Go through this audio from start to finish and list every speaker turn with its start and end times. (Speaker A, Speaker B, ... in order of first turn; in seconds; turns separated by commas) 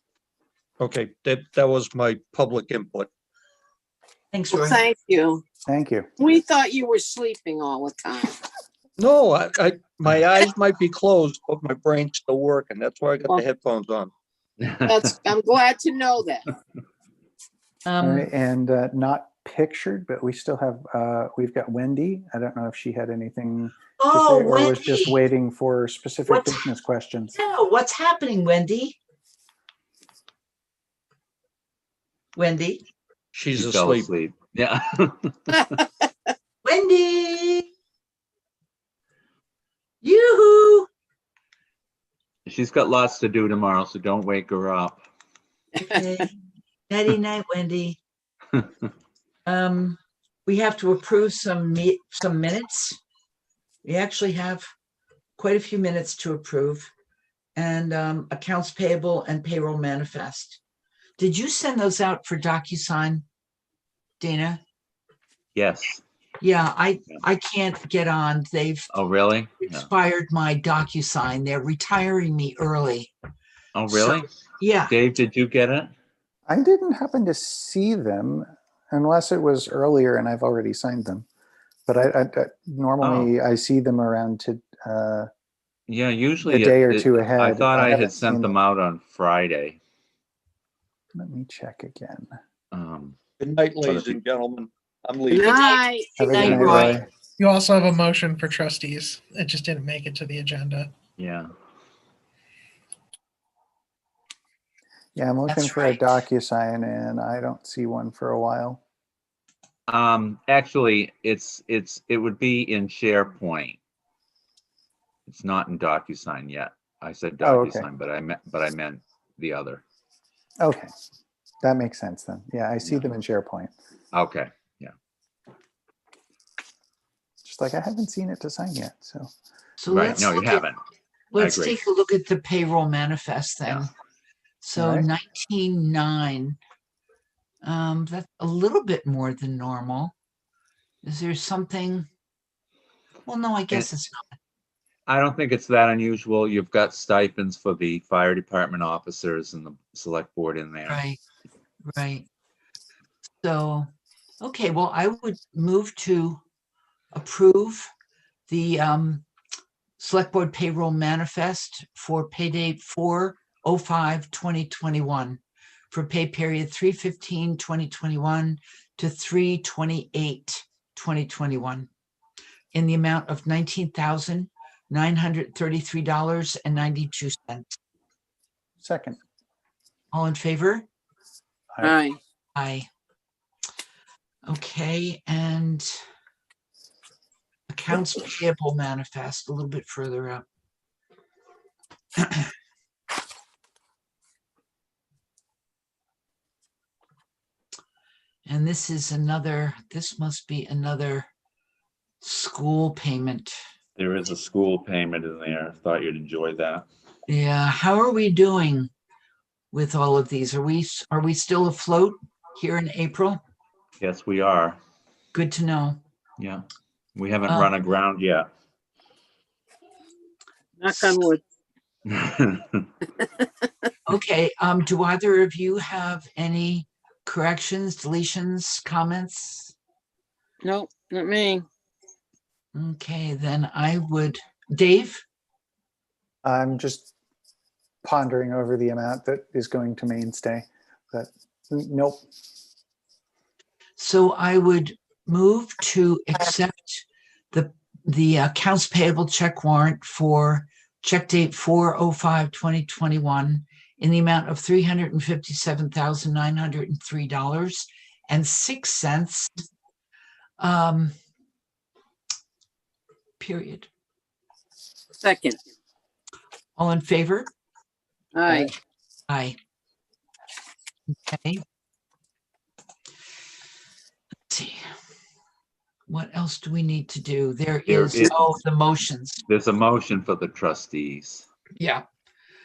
Speaker A: 0.8-3.1, Speaker B: 4.3-4.8, Speaker C: 4.5-5.4, Speaker D: 5.7-6.1, Speaker C: 6.2-8.4, Speaker A: 9.0-14.1, Speaker E: 14.6-14.9, Speaker C: 14.8-16.4, Speaker B: 17.9-18.3, Speaker D: 18.0-27.4, Speaker B: 24.0-25.2, Speaker B: 26.3-26.7, Speaker B: 27.3-29.0, Speaker B: 32.3-32.8, Speaker A: 33.3-34.1, Speaker E: 33.5-35.8, Speaker B: 36.6-37.7, Speaker B: 40.0-40.9, Speaker E: 42.5-45.0, Speaker B: 45.9-46.3, Speaker B: 46.9-48.0, Speaker B: 49.5-53.0, Speaker B: 53.8-54.6, Speaker B: 55.4-56.9, Speaker B: 57.5-60.6, Speaker B: 61.2-63.2, Speaker B: 64.2-64.6, Speaker E: 65.5-66.0, Speaker B: 66.4-68.9, Speaker E: 68.9-69.9, Speaker B: 69.6-73.1, Speaker E: 73.7-75.9, Speaker B: 73.9-75.0, Speaker D: 76.5-81.2, Speaker D: 81.8-85.3, Speaker E: 83.0-83.3, Speaker E: 85.9-89.8, Speaker D: 86.4-88.5, Speaker D: 91.1-92.3, Speaker E: 92.7-93.2, Speaker A: 93.4-95.7, Speaker E: 93.8-94.2, Speaker B: 95.3-97.0, Speaker C: 95.5-96.1, Speaker D: 96.2-97.1, Speaker E: 96.4-96.8, Speaker F: 97.4-100.9, Speaker E: 101.2-101.5, Speaker D: 105.2-108.8, Speaker B: 105.5-106.2, Speaker E: 109.9-113.8, Speaker E: 115.3-119.8, Speaker D: 117.4-117.9, Speaker D: 120.6-120.9, Speaker D: 121.6-123.7, Speaker E: 124.1-124.9, Speaker D: 127.4-129.3, Speaker B: 129.8-130.7, Speaker E: 129.9-130.8, Speaker B: 131.3-133.9, Speaker E: 131.4-131.8, Speaker B: 134.6-136.6, Speaker D: 134.7-135.1, Speaker B: 137.6-140.1, Speaker B: 141.0-142.1, Speaker B: 143.2-144.3, Speaker E: 145.1-151.0, Speaker B: 150.8-151.2, Speaker B: 151.9-152.3, Speaker B: 153.4-153.9, Speaker B: 154.4-156.4, Speaker B: 157.1-157.9, Speaker B: 158.5-159.2, Speaker B: 160.0-171.9, Speaker B: 172.7-177.7, Speaker D: 178.8-179.2, Speaker B: 180.1-180.9, Speaker C: 181.8-182.2, Speaker B: 182.5-182.9, Speaker B: 184.4-186.0, Speaker B: 187.7-190.4, Speaker B: 192.2-192.4, Speaker B: 198.4-201.3, Speaker B: 202.2-203.6, Speaker E: 203.9-206.8, Speaker B: 207.3-208.9, Speaker B: 209.7-213.4, Speaker E: 214.0-214.8, Speaker B: 215.3-216.0, Speaker E: 216.4-216.6, Speaker E: 217.2-218.4, Speaker B: 217.4-217.7, Speaker C: 220.8-221.4, Speaker E: 222.1-222.9, Speaker B: 224.1-229.7, Speaker C: 230.6-231.7, Speaker B: 232.7-235.2, Speaker D: 236.4-237.1, Speaker D: 238.0-242.2, Speaker B: 244.0-259.6, Speaker B: 260.6-261.1, Speaker B: 263.4-263.9, Speaker C: 265.2-265.6, Speaker B: 266.8-267.5, Speaker C: 268.3-268.7, Speaker B: 269.3-269.6, Speaker B: 271.1-271.6, Speaker B: 274.5-274.9, Speaker B: 276.1-279.4, Speaker E: 277.9-278.5, Speaker E: 279.5-281.4, Speaker B: 281.8-282.0